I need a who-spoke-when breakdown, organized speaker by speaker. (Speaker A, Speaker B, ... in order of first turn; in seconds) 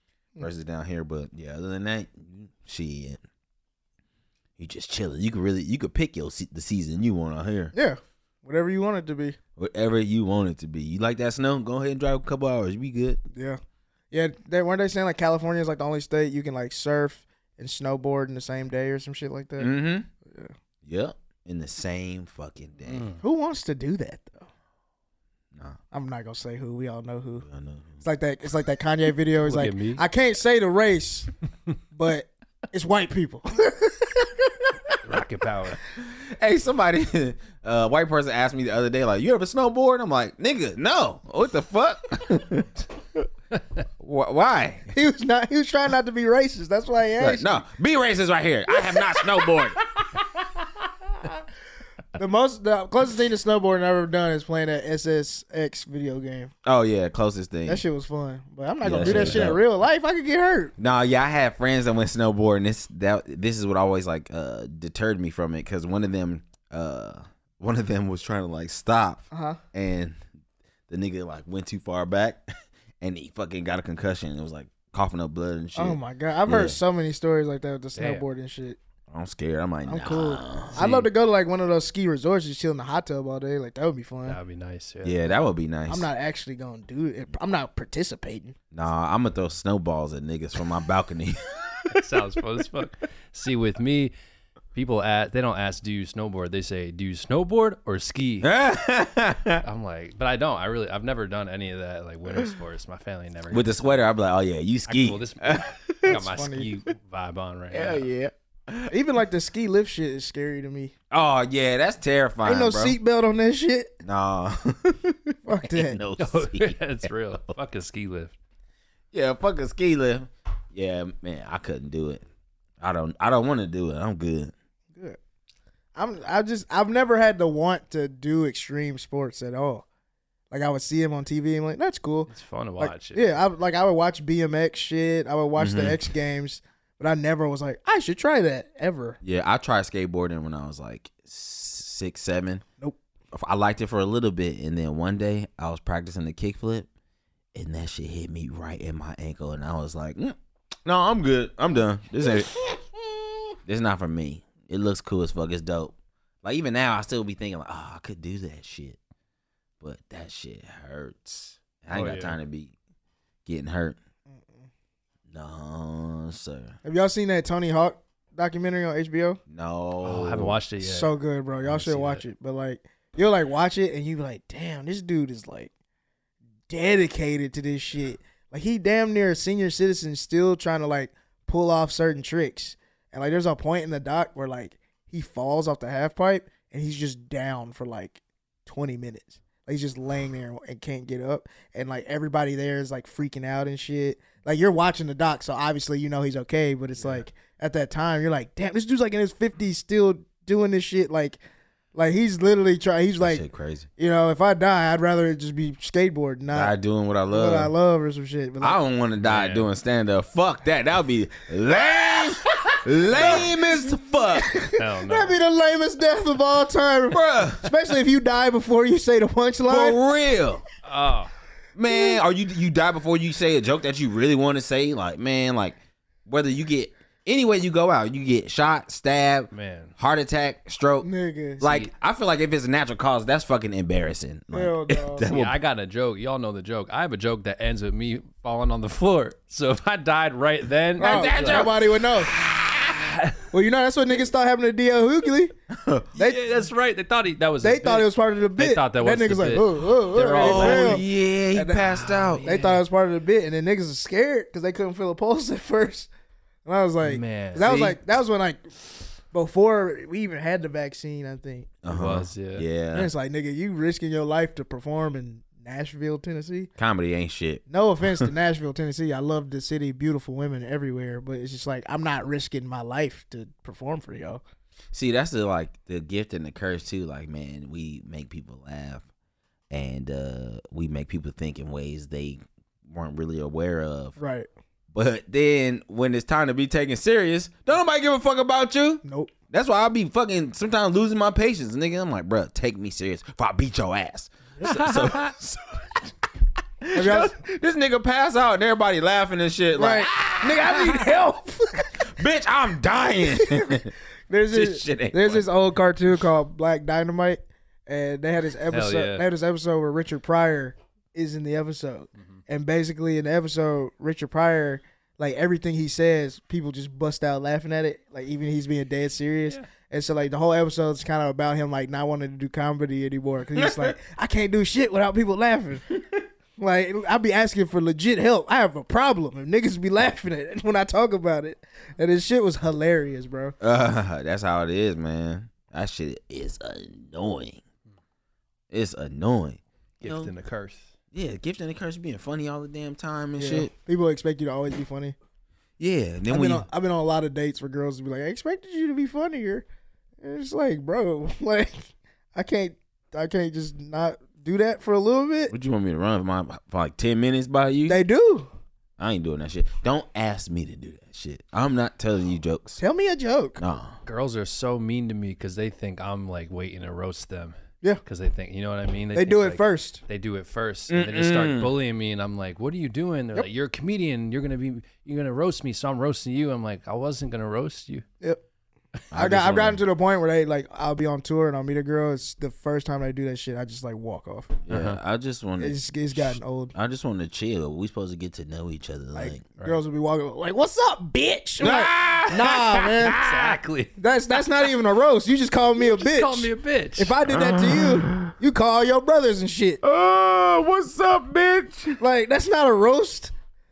Speaker A: 0.4-3.2, 4.6-7.7, 9.6-13.2, 19.6-20.1, 20.8-23.1, 27.4-28.0, 36.0-43.3, 44.0-44.9, 47.2-49.8, 56.6-57.8, 58.8-59.6, 60.8-70.2, 70.9-72.5, 73.0-76.8, 79.1-81.0, 85.0-86.1, 88.7-91.9, 98.4-99.6, 103.5-106.2, 107.7-108.9, 111.1-113.0, 114.0-116.8, 119.1-122.2, 122.8-124.5, 135.6-136.0, 139.2-142.6, 143.3-146.9, 147.5-152.5, 153.7-159.0, 159.8-162.7, 163.4-164.0, 165.3-166.8, 169.5-170.6, 203.2-203.9, 206.5-207.7, 208.6-214.5, 217.1-217.7, 219.7-220.6, 221.8-231.1, 231.6-235.6, 241.0-241.8, 245.7-246.2, 250.4-252.5, 257.6-258.0, 261.8-263.1, 266.8-268.3, 274.9-279.0, 279.7-284.1, 284.9-296.1, 296.8-301.1, 302.0-303.9, 304.5-305.5, 323.5-324.0, 333.6-337.6, 338.7-340.3, 341.1-343.7, 345.8-346.6, 355.5-358.0, 359.0-362.8, 363.6-364.0, 370.9-371.7, 379.1-379.8, 384.7-389.4, 391.6-393.6, 397.3-398.3, 399.8-402.0
Speaker B: 7.7-9.4, 13.3-13.6, 14.1-20.5, 23.2-24.5, 25.9-27.4, 28.0-31.3, 31.9-35.0, 44.9-47.6, 48.9-49.2, 52.1-56.5, 57.7-60.7, 69.3-69.6, 75.8-78.8, 79.8-84.4, 85.9-88.5, 106.0-106.7, 108.9-110.9, 112.4-114.0, 115.4-116.0, 125.9-129.8, 130.5-139.2, 164.3-164.7, 166.8-169.4, 170.8-175.7, 176.7-201.4, 201.9-203.4, 204.0-206.7, 207.3-208.8, 213.1-213.4, 214.3-220.0, 231.0-231.6, 234.5-235.3, 241.0-242.3, 243.5-245.5, 246.2-246.4, 247.6-256.1, 256.6-258.7, 259.3-261.7, 262.9-266.7, 267.7-274.4, 284.2-284.5, 289.0-289.3, 294.6-295.0, 296.9-297.4, 299.7-302.1, 303.2-325.8, 326.6-333.6, 343.4-345.1, 346.3-349.6, 350.2-355.5, 357.9-358.5, 362.8-363.6, 369.1-370.0, 379.1-384.6, 385.6-386.7, 389.1-393.2, 394.0-399.8, 402.0-403.3
Speaker C: 22.9-23.2, 29.4-30.0, 35.0-35.8, 59.0-59.5, 78.0-78.2, 84.2-85.4, 91.9-94.1, 94.7-98.5, 99.6-104.0, 104.9-108.1, 116.2-118.3, 132.3-133.3, 161.9-162.4, 170.0-172.2, 209.2-209.7, 214.8-215.3, 220.8-221.3, 229.5-229.9, 231.6-231.9, 235.2-241.7, 242.9-243.4, 246.2-251.0, 251.9-252.8, 257.0-257.6, 261.9-262.6, 308.7-309.2, 340.0-340.9, 364.1-378.0, 384.7-385.0, 392.6-393.9, 395.8-397.2